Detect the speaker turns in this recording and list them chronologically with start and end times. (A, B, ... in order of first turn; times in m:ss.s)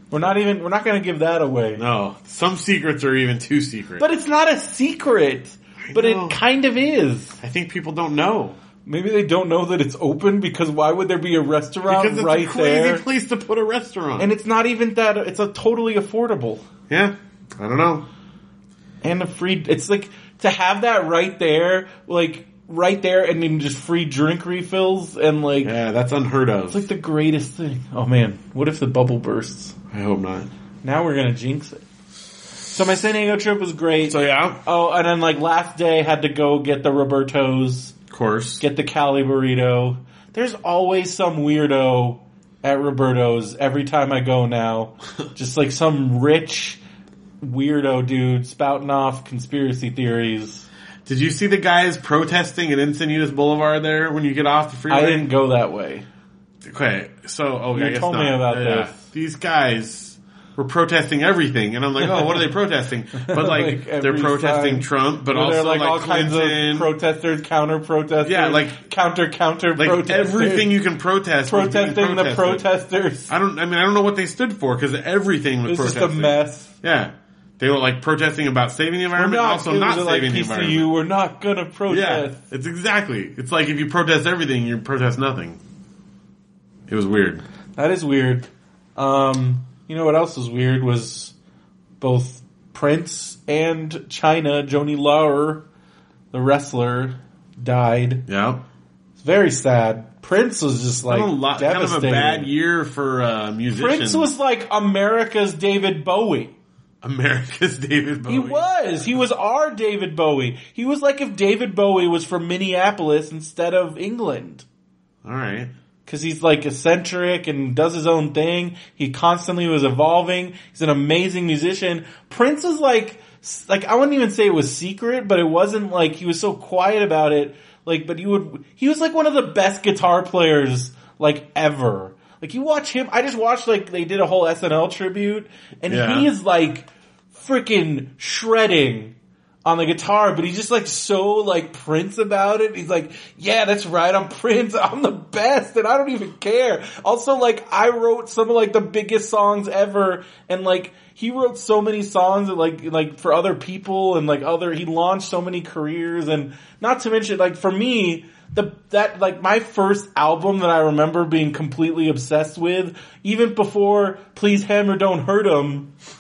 0:00.1-0:01.8 A
0:01.8-0:04.1 B
0:04.0-0:07.4 A
0:05.8-0:06.4 B
0:07.4-0:08.6 B
0:08.9-0:13.0 A
0:11.9-0:14.3 B
0:14.2-0:16.6 A
0:16.9-0:18.1 B
0:19.0-0:25.8 A
0:25.6-0:26.8 B
0:26.7-0:29.8 A
0:29.9-0:30.5 B
0:30.8-0:31.8 A
0:32.7-0:38.0 A
0:34.0-0:34.6 B
0:38.1-0:38.6 B
0:38.6-0:46.8 A
0:47.4-0:50.7 A
0:51.1-0:55.3 B
0:54.9-0:56.1 A
0:56.6-1:06.9 B
0:57.7-0:59.0 A
1:02.0-1:02.4 A
1:03.2-1:10.7 A
1:08.2-1:08.8 B
1:09.8-1:12.7 B
1:11.5-1:13.3 A
1:13.3-1:20.9 B
1:15.7-1:16.7 A
1:19.2-1:22.4 A
1:21.9-1:25.6 B
1:26.9-1:27.4 B
1:27.8-1:31.3 A
1:32.0-1:35.6 A
1:36.3-1:38.3 A
1:38.3-1:38.6 B
1:39.2-1:42.5 A
1:41.1-1:44.3 B
1:43.7-1:46.5 A
1:47.0-1:48.7 B
1:48.3-1:54.6 A
1:55.2-1:55.7 B
1:56.1-2:45.9 A
2:15.9-2:16.3 B